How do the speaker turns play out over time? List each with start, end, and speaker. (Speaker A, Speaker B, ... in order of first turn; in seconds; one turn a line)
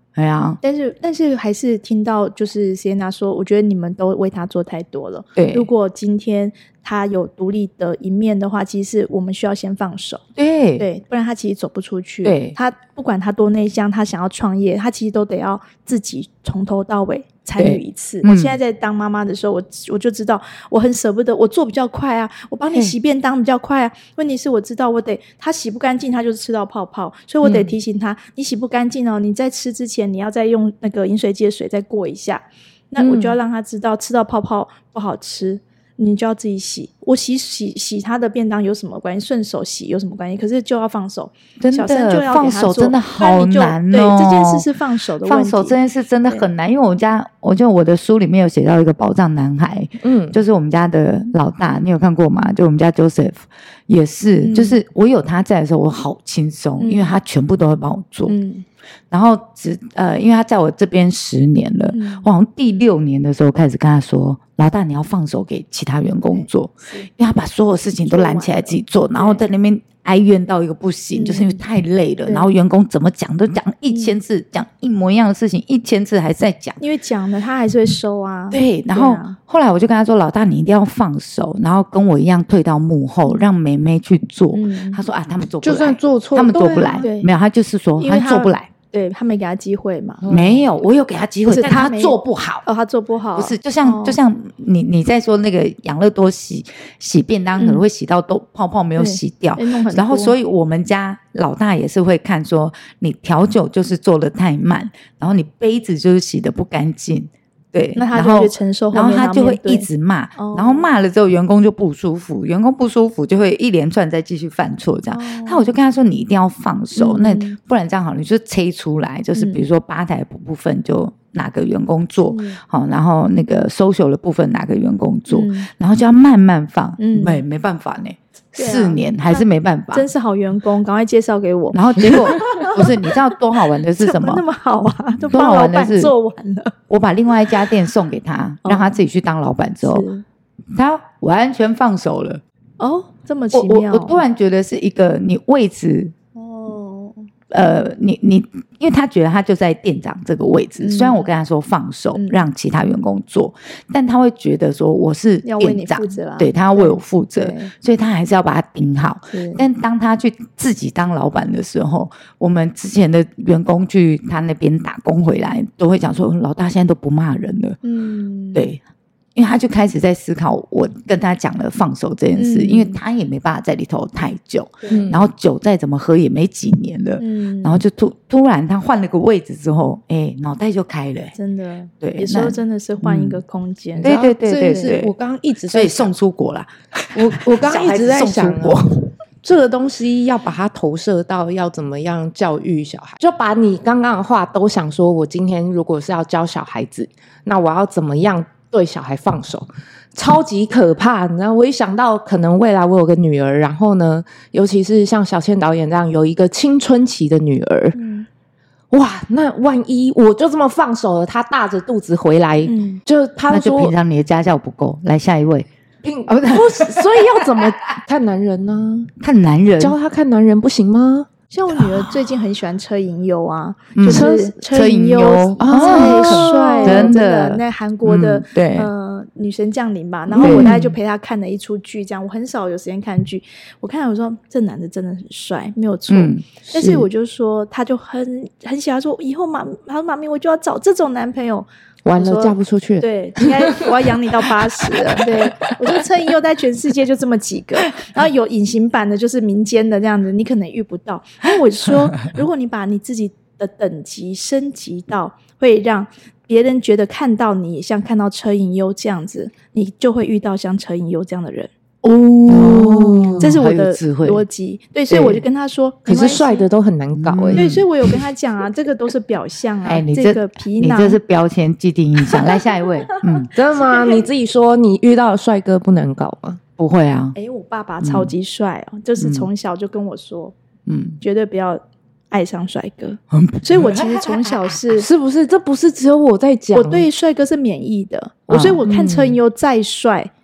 Speaker A: 0.1-0.6
Speaker B: 0.6-10.2
Speaker A: 5.3-5.7
Speaker A: 10.4-10.8
Speaker B: 10.8-45.8
Speaker A: 12.2-12.6
Speaker A: 17.6-18.6
Speaker C: 27.4-27.7
Speaker C: 33.0-33.4
Speaker A: 41.6-44.6
Speaker A: 45.2-58.3
Speaker C: 50.0-50.4
Speaker B: 54.4-54.8
Speaker B: 56.8-57.1
Speaker B: 58.3-58.6
Speaker A: 59.1-76.8
Speaker B: 61.9-62.3
Speaker B: 66.3-67.1
Speaker B: 68.1-69.4
Speaker B: 71.1-71.6
Speaker B: 76.8-79.4
Speaker A: 78.5-88.7
Speaker B: 84.5-85.0
Speaker C: 85.6-87.1
Speaker B: 87.0-87.3
Speaker B: 88.0-90.2
Speaker C: 90.2-90.7
Speaker A: 90.3-92.6
Speaker B: 91.5-94.2
Speaker A: 93.3-130.1
Speaker B: 97.6-97.8
Speaker B: 99.0-100.3
Speaker B: 108.0-110.9
Speaker B: 115.1-115.7
Speaker B: 116.9-117.6
Speaker B: 119.3-119.6
Speaker B: 122.3-122.6
Speaker B: 125.3-125.7
Speaker B: 127.0-127.4
Speaker B: 128.5-133.3
Speaker A: 131.7-134.4
Speaker B: 134.0-136.7
Speaker A: 135.3-136.1
Speaker A: 136.9-140.0
Speaker B: 138.6-139.0
Speaker B: 139.8-140.2
Speaker A: 140.7-142.4
Speaker B: 142.8-144.2
Speaker A: 143.5-146.1
Speaker B: 146.3-147.2
Speaker A: 147.5-167.8
Speaker B: 150.8-151.3
Speaker B: 152.1-152.4
Speaker B: 155.4-157.7
Speaker B: 159.3-159.6
Speaker B: 167.8-168.7
Speaker A: 168.5-168.8
Speaker A: 169.3-181.3
Speaker B: 172.3-173.0
Speaker B: 174.8-175.1
Speaker C: 174.9-175.3
Speaker B: 177.2-177.8
Speaker B: 181.3-184.1
Speaker A: 182.0-183.4
Speaker C: 183.9-186.1
Speaker A: 184.0-185.1
Speaker A: 185.7-188.9
Speaker C: 187.1-188.8
Speaker C: 189.4-208.0
Speaker B: 207.9-208.3
Speaker C: 208.9-213.9
Speaker B: 212.6-213.0
Speaker A: 213.5-215.7
Speaker C: 216.0-219.1
Speaker A: 216.3-217.4
Speaker A: 219.2-219.9
Speaker C: 219.8-221.3
Speaker B: 221.5-261.7
Speaker A: 223.9-228.9
Speaker C: 224.1-224.6
Speaker C: 225.6-227.1
Speaker C: 230.3-230.9
Speaker A: 230.4-230.8
Speaker A: 236.1-237.0
Speaker C: 242.0-245.7
Speaker A: 262.0-264.4
Speaker C: 262.5-263.5
Speaker B: 263.4-266.7
Speaker C: 265.1-265.4
Speaker C: 266.1-267.8
Speaker A: 267.1-267.8
Speaker B: 267.6-271.2
Speaker A: 269.8-273.5
Speaker C: 273.5-276.6
Speaker B: 273.9-274.2
Speaker A: 276.8-277.4
Speaker B: 277.4-280.5
Speaker A: 278.0-278.3
Speaker A: 279.2-279.5
Speaker A: 280.9-281.2
Speaker B: 281.2-285.1
Speaker A: 283.3-284.5
Speaker C: 284.9-287.1
Speaker B: 286.7-290.3
Speaker A: 288.5-288.8
Speaker C: 288.8-289.4